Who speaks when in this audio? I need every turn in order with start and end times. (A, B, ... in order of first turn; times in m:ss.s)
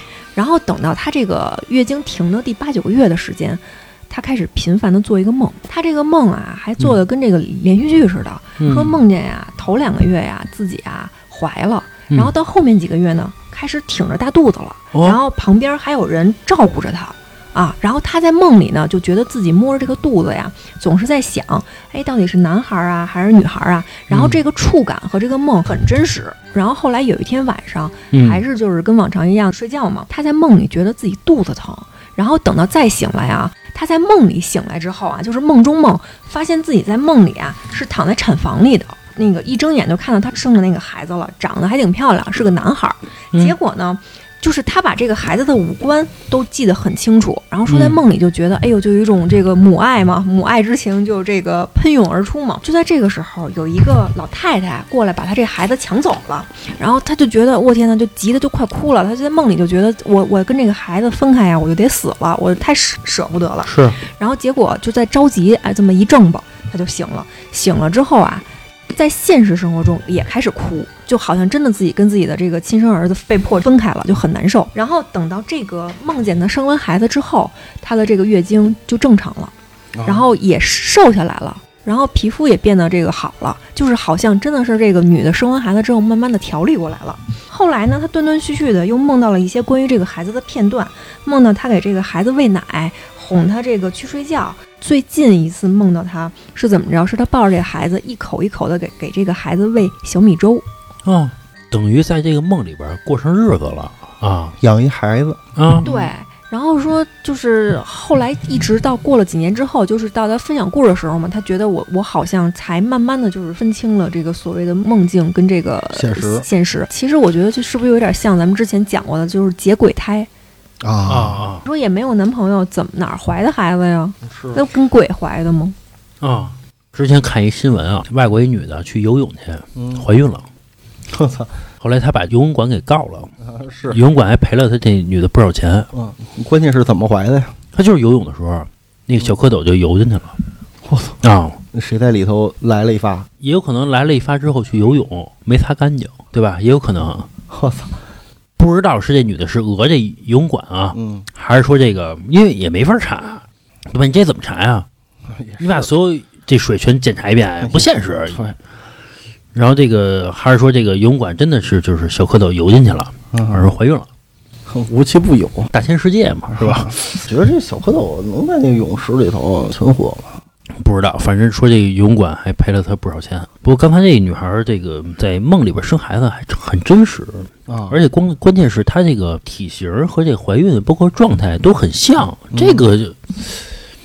0:00.4-1:19.5 A
0:08.6-0:08.9 B
0:14.9-0:15.2 B
0:24.1-0:24.4 B
0:28.1-0:28.4 B
0:47.7-0:48.0 B
1:03.6-1:04.0 B
1:19.9-1:20.3 C
1:20.0-1:40.6 A
1:41.0-1:44.6 B
1:44.6-1:46.1 C
1:45.6-1:45.9 B
1:45.8-2:00.3 A
1:55.9-1:56.4 C
2:00.8-2:01.6 C
2:01.1-2:01.6 B
2:01.6-2:05.8 A
2:04.2-2:04.6 C
2:06.2-2:10.5 B
2:09.8-2:10.1 C
2:11.1-2:11.6 C
2:11.8-2:13.3 B
2:13.4-2:14.0 C
2:13.9-2:15.9 B
2:15.9-2:17.6 C
2:17.7-2:20.4 B
2:20.8-2:21.2 C
2:21.2-2:21.6 B
2:21.7-2:23.3 C
2:23.4-2:27.3 B
2:27.5-2:28.0 C
2:28.6-2:34.9 B
2:30.9-2:31.3 C
2:35.3-2:35.9 C
2:35.6-2:38.5 B
2:37.6-2:38.6 C
2:39.5-2:44.1 B
2:43.3-2:43.7 C
2:44.6-2:45.7 C
2:45.7-2:47.0 B
2:46.5-2:50.4 C
2:50.8-3:03.6 B
2:57.7-2:58.0 C
3:02.5-3:02.9 C